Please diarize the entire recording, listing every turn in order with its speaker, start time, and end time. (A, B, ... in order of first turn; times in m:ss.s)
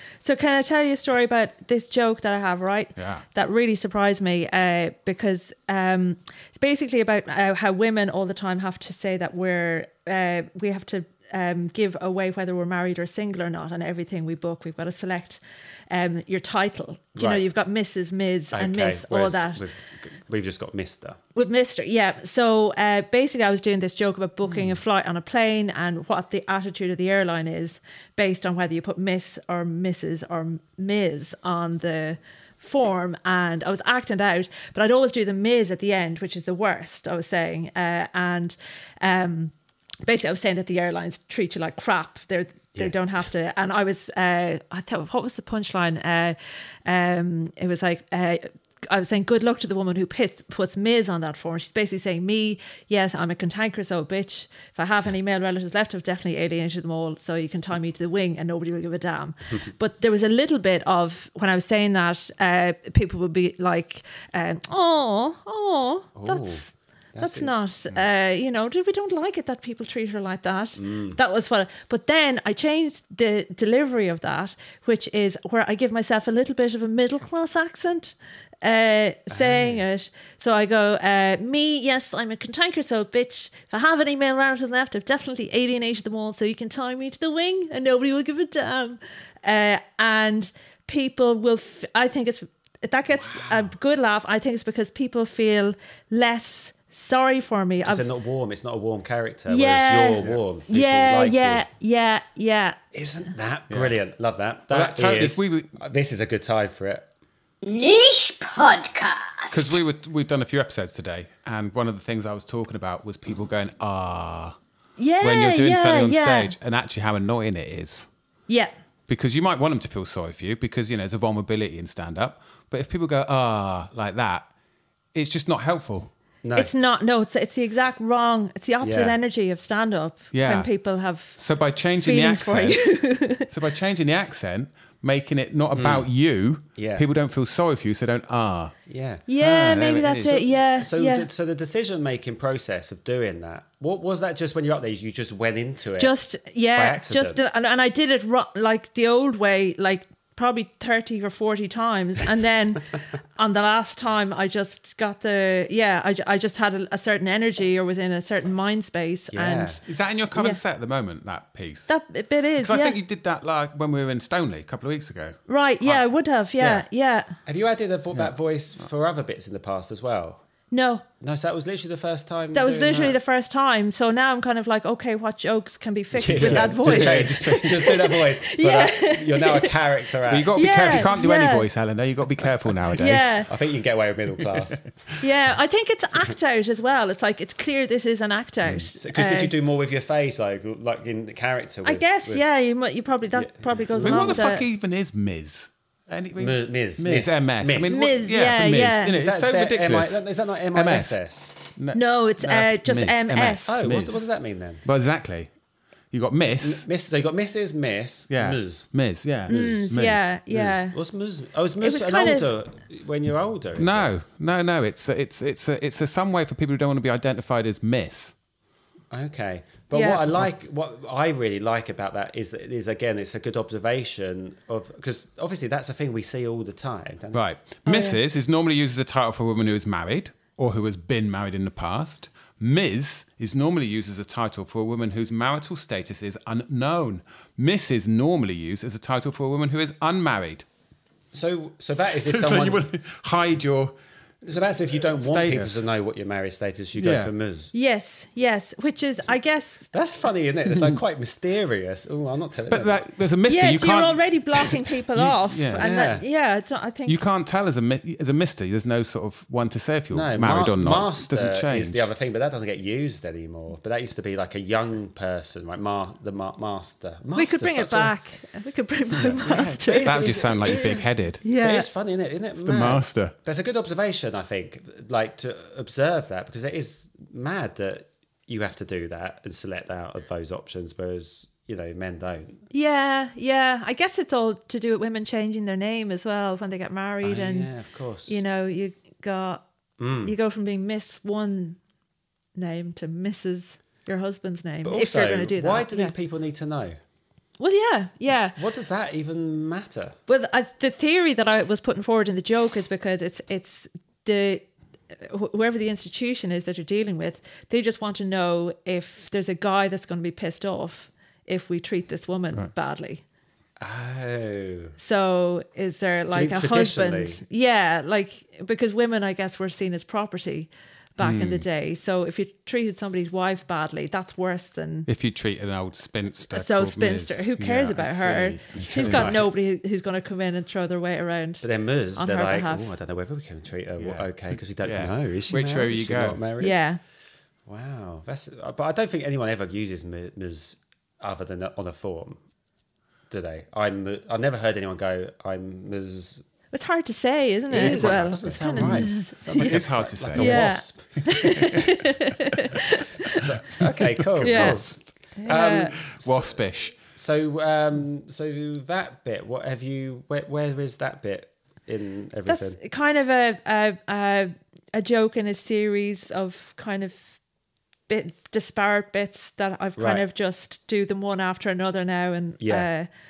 0:00.2-0:19.6 A
0:03.0-0:03.2 B
0:17.2-0:17.4 C
0:18.5-0:21.2 C
0:21.4-0:39.5 A
0:24.5-0:24.8 C
0:40.0-1:38.0 A
1:06.2-1:06.6 C
1:07.2-1:07.5 C
1:10.8-1:11.2 C
1:19.3-1:19.8 C
1:33.1-1:33.7 C
1:37.8-1:41.6 C
1:39.5-1:42.8 A
1:42.9-1:47.1 C
1:43.7-1:44.0 B
1:44.7-1:45.7 B
1:47.6-1:49.8 D
1:49.5-1:54.6 B
1:55.0-1:56.5 A
1:55.2-1:58.1 B
1:59.1-2:04.5 B
2:05.1-2:06.1 B
2:06.4-2:06.7 C
2:06.6-2:11.4 A
2:08.8-2:09.2 C
2:10.3-2:10.7 B
2:11.4-2:18.8 B
2:12.0-2:13.5 A
2:15.7-2:16.1 C
2:16.8-2:17.1 C
2:18.9-2:26.1 C
2:19.3-2:21.3 A
2:19.4-2:20.4 B
2:26.0-2:39.8 A
2:26.8-2:27.4 C
2:39.3-2:39.8 C
2:39.9-2:41.9 B
2:40.3-2:40.6 A
2:41.9-2:43.0 A
2:42.6-2:45.4 B
2:45.5-2:47.4 A
2:46.6-2:46.9 C
2:47.5-2:50.4 C
2:50.7-2:51.0 A
2:51.2-2:53.2 C
2:52.5-2:59.7 A
2:56.2-3:01.1 C
2:56.3-2:57.9 B
3:00.3-3:03.5 B
3:00.6-3:01.7 A
3:03.0-3:03.5 A
3:03.5-3:04.9 C
3:05.2-3:09.5 A
3:09.0-3:12.5 C
3:11.8-3:14.6 A
3:13.3-3:14.4 C
3:14.0-3:24.3 B
3:16.4-3:18.0 C
3:17.9-3:19.1 A
3:19.0-3:21.6 C
3:21.9-3:23.7 A
3:23.7-3:24.8 C
3:24.8-3:25.5 B
3:26.1-3:26.9 B
3:26.4-3:28.9 C
3:28.3-3:30.4 B
3:29.5-3:31.0 A
3:29.5-3:29.8 C
3:30.5-3:34.1 C
3:31.8-3:32.5 A
3:33.8-3:38.4 B
3:39.1-3:47.4 C
3:39.9-3:40.2 A
3:47.3-4:00.6 B
3:47.8-3:48.2 A
4:01.3-4:02.9 C
4:02.0-4:04.0 B
4:04.4-4:07.7 C
4:05.2-4:05.9 B
4:07.0-4:07.3 B
4:07.7-4:09.8 A
4:09.9-4:13.0 C
4:12.7-4:15.9 B
4:13.5-4:17.2 A
4:15.8-4:16.2 C
4:17.1-4:22.1 B
4:20.1-4:28.1 C
4:27.4-4:30.2 A
4:29.2-4:42.6 C
4:29.2-4:31.4 B
4:31.4-4:31.9 A
4:32.6-4:33.4 B
4:42.7-4:47.7 A
4:47.2-4:48.4 C
4:48.3-4:49.6 A
4:50.0-4:50.3 C
4:50.2-4:51.8 A
4:52.6-4:56.2 A
4:54.8-4:57.0 C
4:57.6-4:58.6 A
4:58.6-5:00.2 C
5:00.3-5:13.2 A
5:13.8-5:15.0 C
5:15.0-5:25.1 A
5:16.3-5:17.4 C
5:21.2-5:21.7 B
5:25.1-5:29.3 B
5:26.5-5:32.9 A
5:28.8-5:29.5 C
5:31.6-5:36.8 C
5:34.0-5:36.4 B
5:36.6-5:37.0 A
5:37.7-5:42.4 C
5:43.3-5:46.4 C
5:46.7-5:53.4 A
5:47.7-5:51.9 C
5:47.7-5:51.9 B
5:53.3-6:02.8 C
5:54.3-5:57.0 B
5:54.4-5:54.8 A
5:55.4-5:55.9 A
6:02.5-6:07.4 A
6:08.1-6:13.1 A
6:10.0-6:10.2 C
6:12.6-6:12.9 C